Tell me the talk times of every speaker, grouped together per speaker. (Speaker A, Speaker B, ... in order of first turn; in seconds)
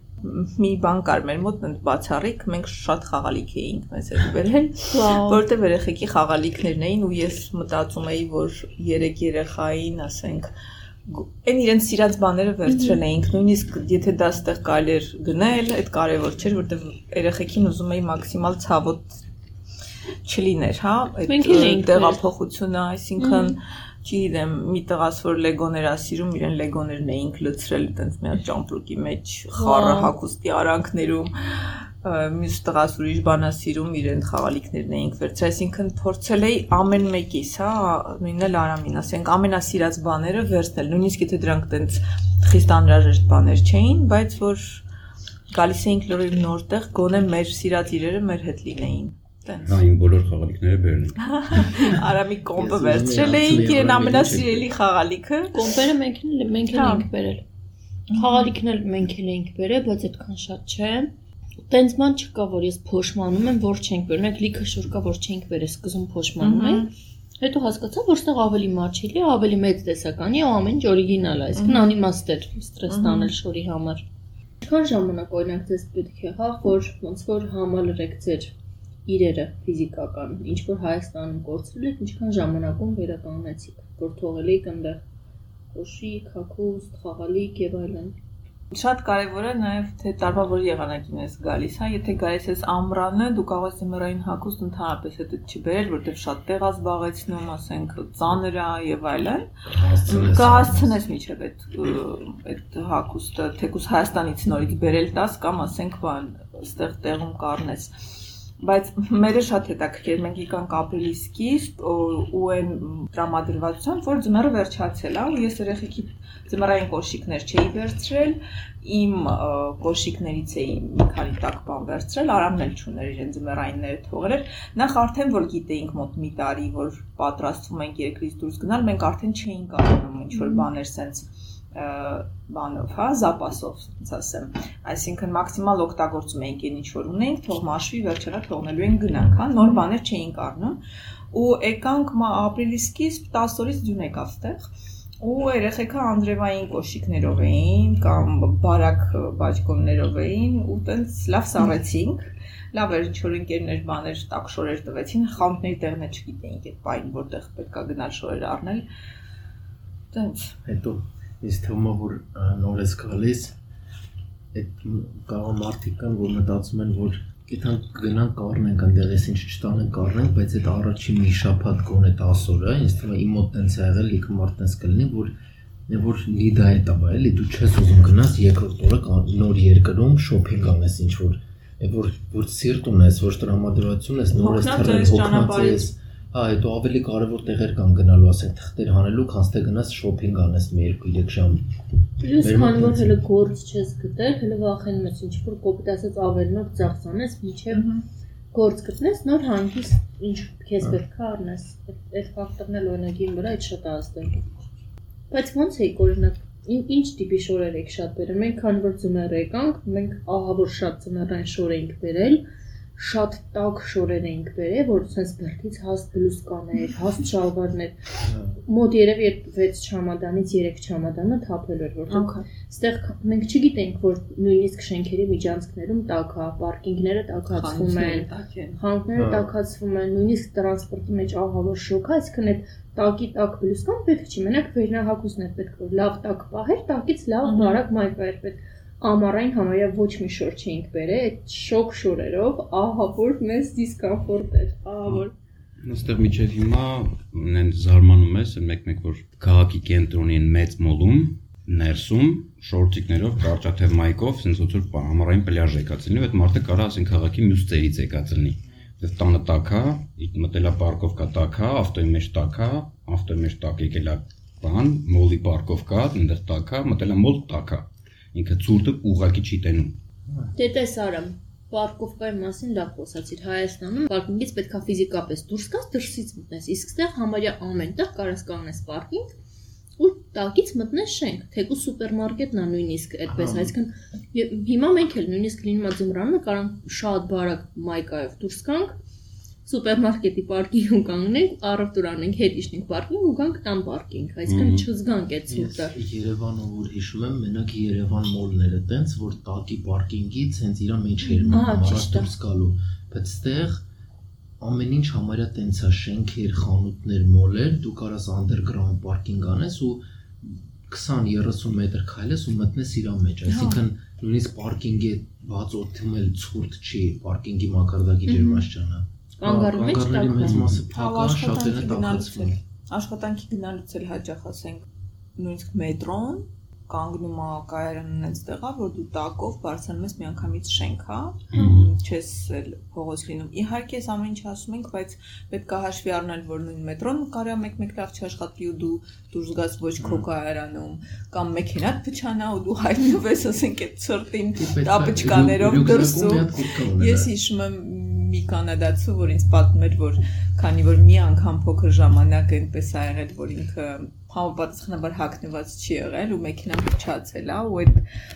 Speaker A: 0.2-10.5, 11.1-19.2, 20.2-44.9, 45.5-49.8, 51.2-55.6, 56.7-57.1, 58.1-58.5, 66.4-66.9, 71.5-71.9, 72.9-73.3, 88.7-99.5, 100.1-107.9, 108.6-140.8, 141.3-144.7, 145.2-158.9, 160.1-160.5, 184.4-185.9, 197.7-198.1, 222.1-222.5, 227.6-228.8, 237.4-237.8, 313.5-313.8, 320.9-324.9, 325.4-358.0
Speaker B: 4.9-5.4, 12.7-13.0, 21.2-22.2, 23.2-23.6, 29.5-30.1, 55.5-57.4, 58.1-61.1, 61.7-66.9, 67.4-74.0, 74.6-78.5, 79.1-85.0, 85.7-88.2, 192.2-197.8, 198.5-204.4, 205.3-212.4, 213.0-218.0, 218.7-245.3, 270.5-279.3, 280.0-288.9, 289.6-295.9, 301.4-302.3, 318.3-318.7, 319.4-320.7
Speaker C: 49.6-51.6, 245.8-270.0, 294.5-294.9, 331.5-331.8
Speaker D: 52.5-54.7, 99.7-101.0, 160.7-163.6, 164.5-175.3, 175.9-191.6, 192.4-193.1, 218.2-218.6, 229.2-229.5, 283.3-283.7, 295.5-303.8, 304.6-322.6, 340.0-340.3, 344.6-347.3